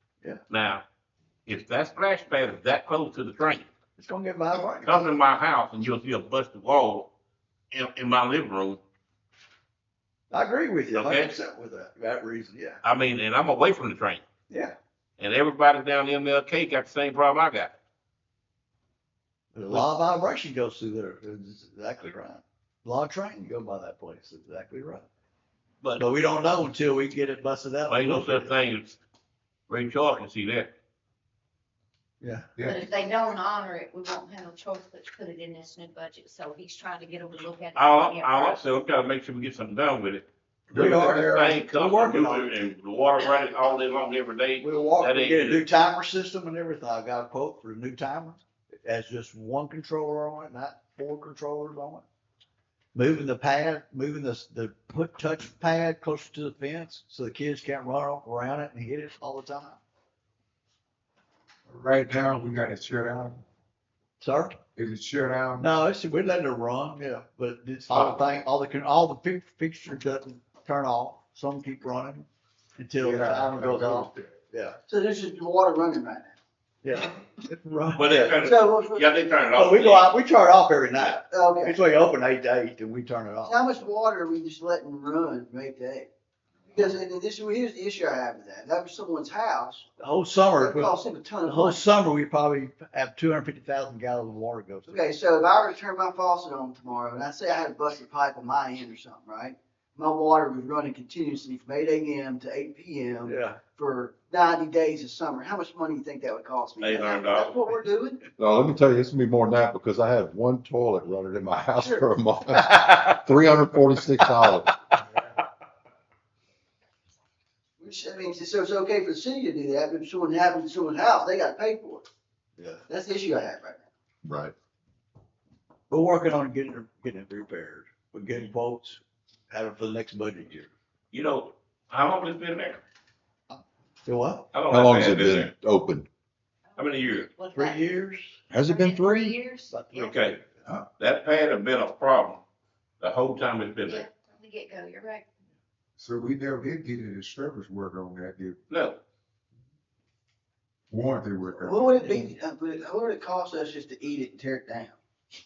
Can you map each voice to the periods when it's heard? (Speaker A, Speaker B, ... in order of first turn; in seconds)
Speaker A: 0.5-0.8, 1.4-3.7, 4.8-7.1, 7.7-8.8, 10.9-11.3, 12.8-14.2, 15.2-17.7, 27.9-29.0, 29.7-30.7, 37.7-45.7, 67.9-68.4, 77.9-80.1, 106.8-107.6, 131.1-132.8, 134.5-135.5, 136.8-137.3, 139.9-140.4, 141.0-142.4, 143.0-144.1, 148.7-149.0
Speaker B: 4.0-5.0, 10.3-12.8, 14.5-14.7, 19.5-25.1, 26.0-28.5, 32.2-32.5, 40.7-42.5, 44.6-52.0, 52.9-59.8, 64.2-64.6, 65.6-72.3, 72.8-74.8, 76.8-78.4, 79.5-83.6, 90.0-90.9, 91.4-95.0, 103.2-103.6, 112.9-113.2, 122.6-122.8, 125.9-130.7, 133.5-134.4, 137.5-138.4, 139.7-140.6, 152.0-152.3
Speaker C: 32.7-38.6, 136.8-137.9, 138.6-140.0, 143.8-145.3
Speaker D: 61.7-63.4, 64.8-65.7, 73.0-74.1, 146.0-148.6, 150.9-151.8
Speaker E: 74.9-76.3, 78.4-79.2, 81.2-81.8, 83.4-86.1, 86.7-89.9, 90.6-91.8, 94.9-108.2, 111.8-112.1, 117.8-122.0, 122.9-123.9, 151.6-154.9
Speaker F: 108.4-114.8, 124.2-124.5, 134.7-136.1, 138.5-139.3